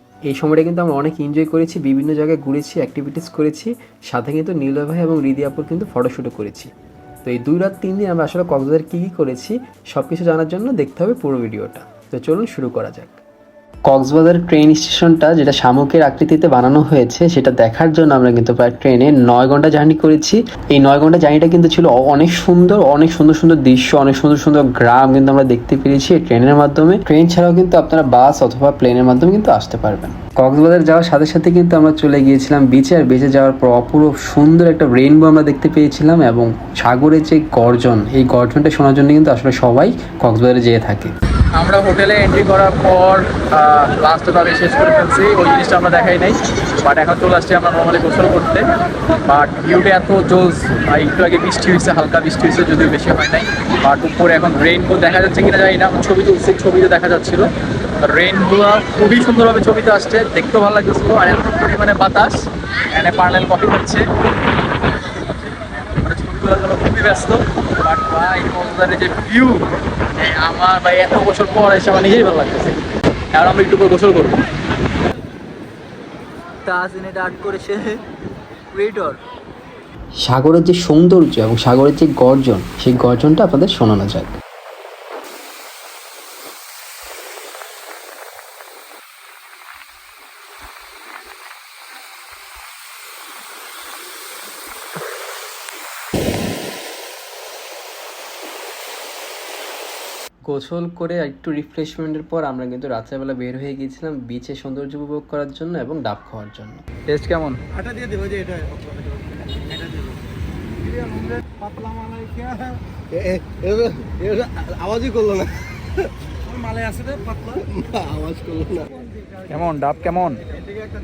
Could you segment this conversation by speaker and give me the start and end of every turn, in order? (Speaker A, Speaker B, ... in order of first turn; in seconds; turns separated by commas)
Speaker A: 0.3-6.7, Speaker A: 7.2-13.2, Speaker A: 13.8-41.1, Speaker B: 41.5-64.0, Speaker B: 64.9-72.8, Speaker B: 73.3-74.4, Speaker B: 76.6-78.0, Speaker B: 78.7-79.2, Speaker A: 80.2-84.4, Speaker A: 100.5-106.8, Speaker B: 107.1-107.6, Speaker C: 107.7-110.2, Speaker C: 110.8-119.0, Speaker B: 119.5-120.4